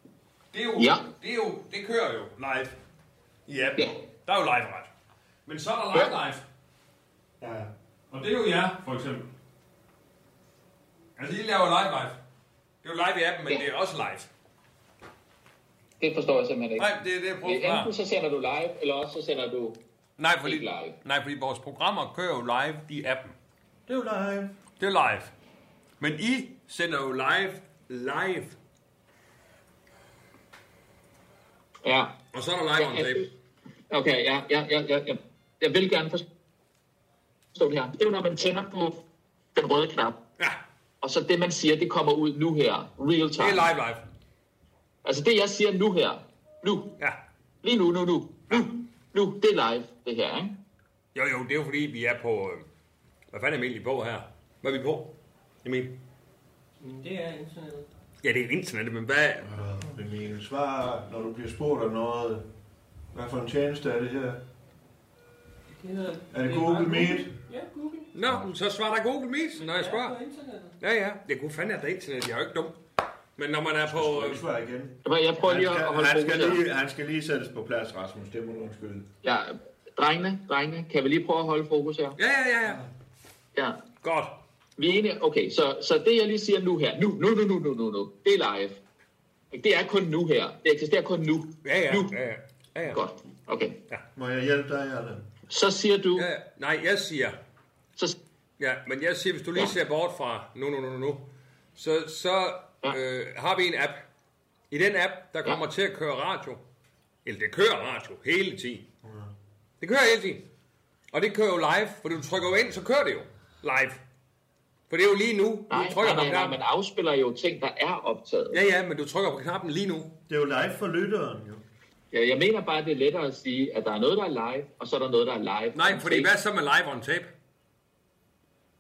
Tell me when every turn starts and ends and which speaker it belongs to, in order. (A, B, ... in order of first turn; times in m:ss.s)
0:00.5-0:02.8 A
0:00.8-0:01.0 B
0:03.5-0:04.9 A
0:05.5-0:06.4 A
0:07.4-0:07.7 C
0:08.1-0:09.3 A
0:11.2-0:12.2 A
0:12.8-0:14.3 A
0:16.0-0:16.9 B
0:16.8-0:17.9 A
0:17.4-0:19.8 B
0:20.2-0:23.4 A
0:20.4-0:21.0 B
0:23.9-0:24.6 C
0:24.8-0:25.3 A
0:26.0-0:28.6 A
0:31.8-0:32.2 B
0:32.3-0:33.3 A
0:32.8-0:33.3 B
0:33.9-0:36.2 B
0:37.6-0:39.0 B
0:39.6-0:40.2 B
0:41.0-0:43.7 B
0:43.4-0:44.0 A
0:45.0-0:46.9 B
0:47.6-0:50.6 B
0:51.2-0:52.6 A
0:53.3-0:55.1 A
0:55.6-0:55.9 A
0:56.8-0:57.9 D
0:58.2-0:59.5 A
0:59.5-1:02.5 C
1:03.1-1:04.4 C
1:05.8-1:08.1 D
1:06.3-1:07.3 C
1:08.1-1:10.2 A
1:09.6-1:10.8 D
1:10.8-1:12.8 A
1:13.4-1:14.4 A
1:13.9-1:19.1 C
1:15.0-1:16.6 B
1:19.2-1:22.2 B
1:22.2-1:22.8 A
1:23.6-1:23.8 B
1:24.0-1:24.4 A
1:24.8-1:28.8 B
1:29.5-1:32.1 B
1:31.6-1:33.0 A
1:32.9-1:33.8 B
1:34.2-1:35.3 C
1:35.5-1:36.3 B
1:36.2-1:37.4 A
1:38.6-1:44.0 A
1:44.7-1:46.6 A
1:47.2-1:48.8 A
1:49.0-1:49.3 C
1:49.8-1:50.4 A
1:51.1-1:54.0 A
1:54.9-1:56.6 A
1:55.7-1:58.6 B
1:58.5-2:00.1 A
2:00.3-2:01.6 C
2:02.1-2:06.3 B
2:05.7-2:07.3 A